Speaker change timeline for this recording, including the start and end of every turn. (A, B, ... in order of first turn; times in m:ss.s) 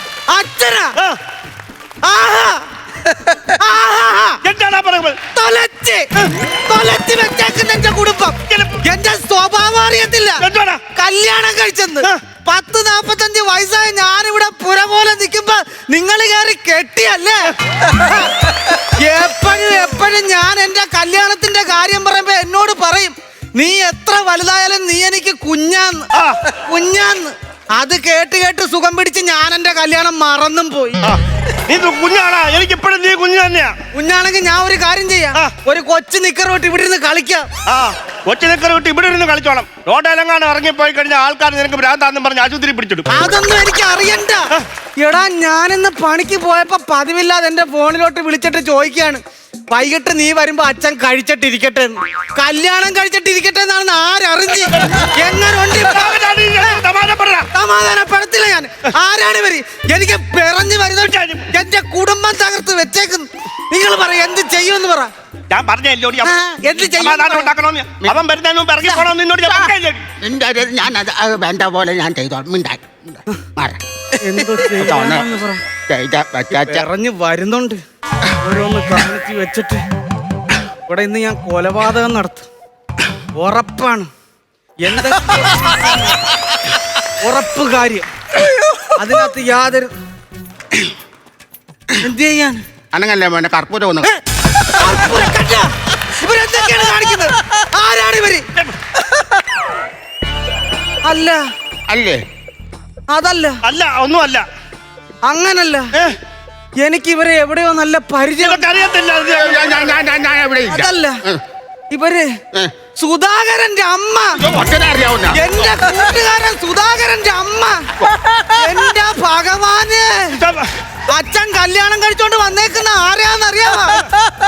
0:00.3-0:01.0 A
0:02.0-0:04.4 A
0:04.4-0:05.2 B
0:05.3-0:31.0 A
0:08.5-0:08.8 B
0:10.4-0:10.8 B
0:26.1-0:26.4 B
0:31.0-0:33.8 B
0:33.9-0:37.5 A
0:37.7-0:43.1 B
0:43.1-0:44.5 A
0:45.0-0:56.8 A
0:54.7-0:55.1 B
0:55.8-0:57.5 B
0:57.5-1:05.1 A
1:01.1-1:01.5 B
1:05.5-1:10.1 B
1:06.2-1:07.5 A
1:09.4-1:13.8 C
1:14.2-1:15.6 A
1:14.4-1:15.3 C
1:15.9-1:16.9 C
1:16.5-1:17.8 A
1:18.4-1:19.8 A
1:20.9-1:22.5 A
1:23.4-1:24.1 A
1:24.8-1:26.2 A
1:27.1-1:28.1 A
1:28.9-1:29.9 A
1:32.0-1:32.6 A
1:32.9-1:34.1 C
1:34.6-1:38.5 A
1:41.0-1:41.4 A
1:41.9-1:42.2 C
1:43.1-1:43.6 A
1:43.6-1:44.4 B
1:45.2-1:45.9 A
1:46.8-1:48.7 A
1:48.4-1:50.0 B
1:49.3-1:51.4 C
1:50.7-1:51.2 A
1:51.9-1:52.4 A
1:53.0-1:54.4 A
1:54.5-1:55.4 C
1:55.3-2:00.4 A
2:00.3-2:00.7 B
2:01.1-2:04.1 A